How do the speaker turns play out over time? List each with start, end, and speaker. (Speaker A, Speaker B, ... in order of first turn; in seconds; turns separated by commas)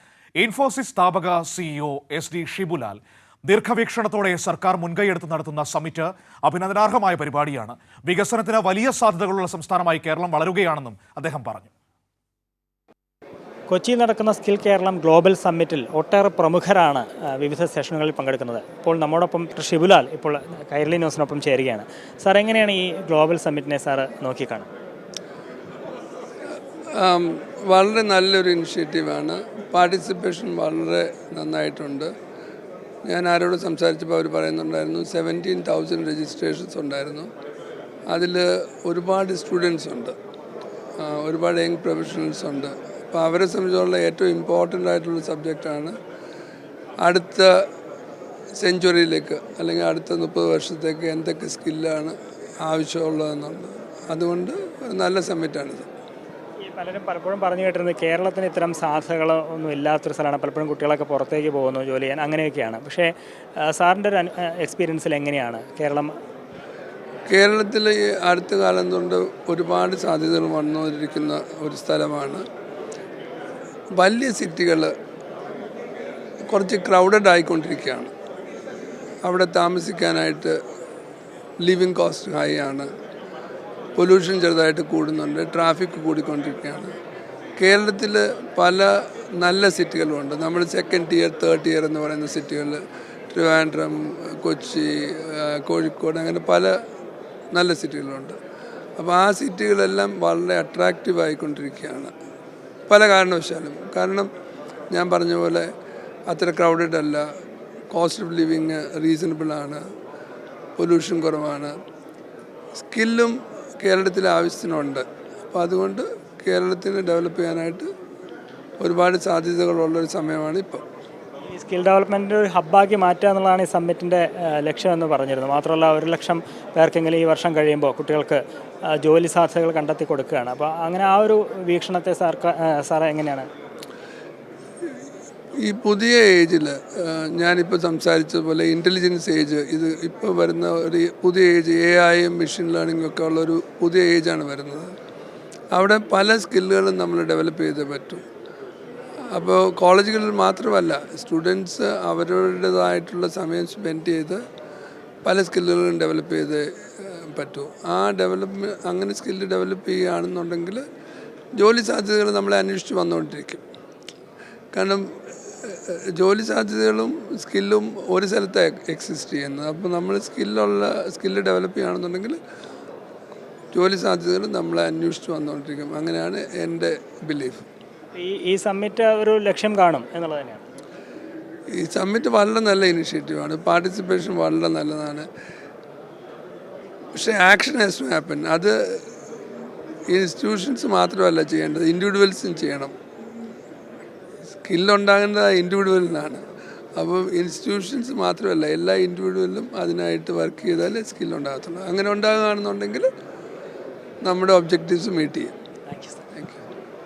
Speaker A: 0.4-11.7, Speaker B: 13.7-24.7, Speaker C: 26.9-32.1, Speaker C: 33.0-37.3, Speaker C: 38.1-40.1, Speaker C: 41.0-46.0, Speaker C: 47.0-47.5, Speaker C: 48.6-55.9, Speaker B: 56.6-63.1, Speaker B: 63.6-66.1, Speaker C: 67.3-72.4, Speaker C: 73.9-74.9, Speaker C: 76.5-78.1, Speaker C: 79.2-80.6, Speaker C: 81.6-82.9, Speaker C: 84.0-86.9, Speaker C: 87.6-92.8, Speaker C: 93.3-96.7, Speaker C: 97.5-98.4, Speaker C: 99.0-102.1, Speaker C: 102.9-104.3, Speaker C: 104.9-105.7, Speaker C: 106.3-107.2, Speaker C: 107.9-109.8, Speaker C: 110.8-111.7, Speaker C: 112.8-117.9, Speaker C: 118.8-120.8, Speaker B: 121.5-133.5, Speaker C: 135.6-144.9, Speaker C: 145.7-148.2, Speaker C: 149.3-154.4, Speaker C: 155.2-160.8, Speaker C: 161.6-163.6, Speaker C: 164.7-165.1, Speaker C: 165.6-172.4, Speaker C: 173.7-177.7, Speaker B: 178.1-180.7, Speaker C: 181.7-185.3, Speaker C: 187.2-189.0, Speaker C: 190.1-192.9, Speaker C: 194.6-196.4, Speaker C: 197.0-203.1, Speaker C: 204.2-205.5, Speaker B: 205.9-206.2